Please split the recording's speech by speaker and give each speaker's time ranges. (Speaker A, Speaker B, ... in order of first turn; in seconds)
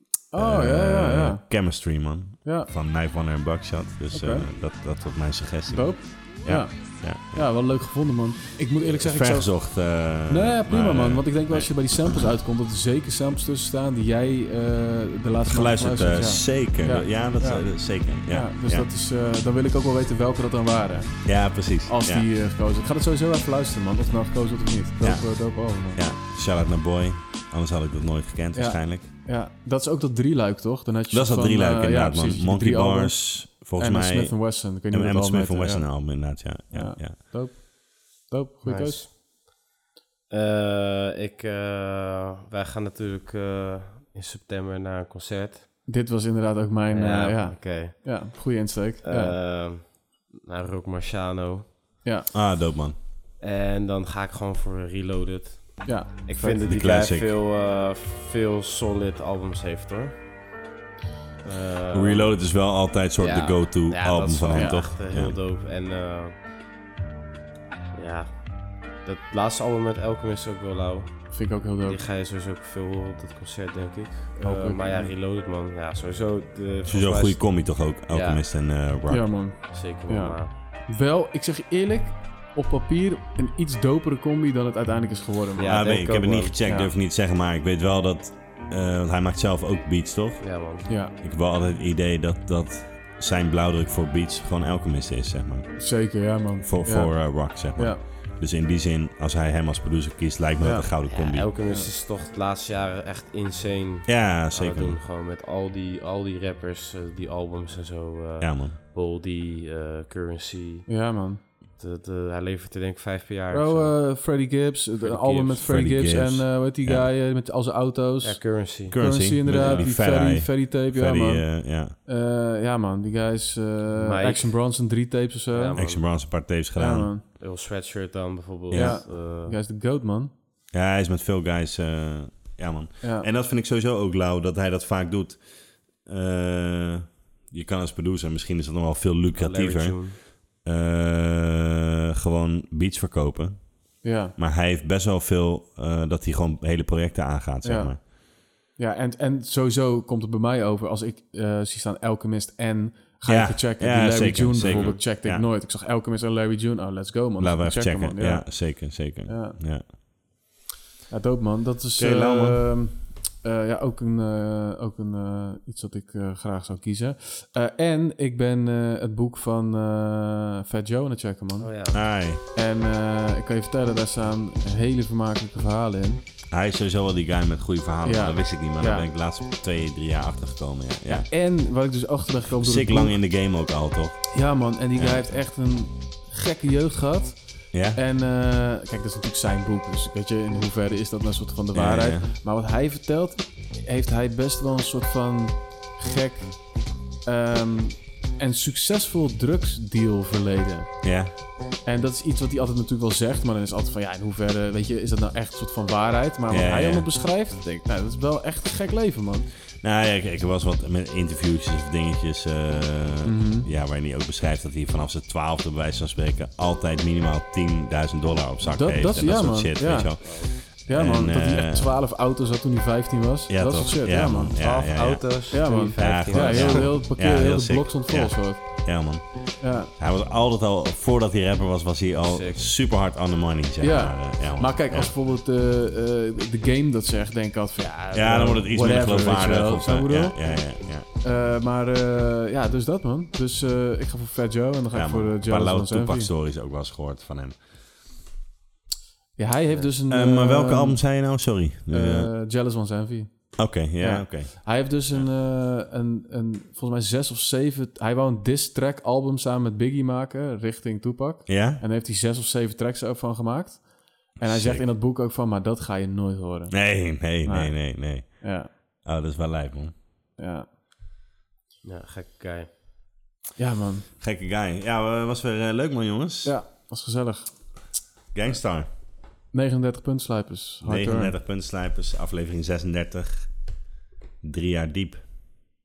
Speaker A: 0.3-1.9, 2.4-2.7, 4.1-4.5, 5.7-26.0, 28.6-39.0, 45.9-49.4, 55.8-56.6, 64.5-64.8, 71.3-72.0, 74.4-75.1, 79.1-85.9, 90.9-91.1, 95.8-98.0, 100.6-100.9, 110.9-111.4, 113.5-125.9, 126.8-127.2, 128.7-130.3, 133.0-133.3, 144.0-144.3, 147.6-148.1, 148.8-159.6, 161.1-171.9, 172.4-176.2, 178.0-179.1, 181.1-183.2, 184.3-201.1, 201.8-209.5, 213.2-213.7, 218.7-224.6, 225.5-228.9, 229.6-229.9, 233.8-240.4, 241.2-246.3, 249.4-251.1, 251.9-268.7, 270.4-270.7, 273.6-274.1, 276.4-277.9, 279.5-281.3
Speaker B: 0.3-7.4, 8.8-12.2, 15.4-18.9, 21.2-22.3, 25.0-29.1, 31.1-37.1, 52.3-53.0, 56.4-57.3, 61.9-65.4, 76.8-79.3, 85.6-95.8, 96.6-101.5, 104.0-105.0, 108.4-108.8, 115.6-117.1, 118.9-122.0, 125.8-127.1, 128.7-129.0, 130.7-148.0, 153.3-155.5, 157.4-159.9, 161.9-162.6, 171.9-172.4, 176.5-181.3, 182.5-184.3, 184.9-185.2, 187.7-188.0, 191.7-192.2, 201.0-201.3, 206.5-207.1, 209.8-221.9, 223.5-235.1, 238.1-241.1, 244.9-247.6, 250.1-252.3, 253.6-255.3, 261.5-261.8, 264.4-264.8, 266.7-269.9, 274.2-276.6, 278.3-278.9, 280.8-283.5, 284.4-285.2
Speaker C: 38.6-39.1, 40.3-45.7, 46.9-48.4, 49.0-51.7, 53.4-60.2, 61.4-62.4, 63.2-66.4, 67.9-78.4, 79.7-80.5, 85.5-86.6, 90.4-90.9, 101.0-110.9, 111.8-114.1, 115.0-115.7, 118.2-118.9, 123.9-124.6, 125.5-126.0, 127.3-129.6, 139.3-140.2, 171.6-172.0, 220.2-220.5, 224.6-226.9, 232.3-232.7, 237.8-238.4, 271.8-272.7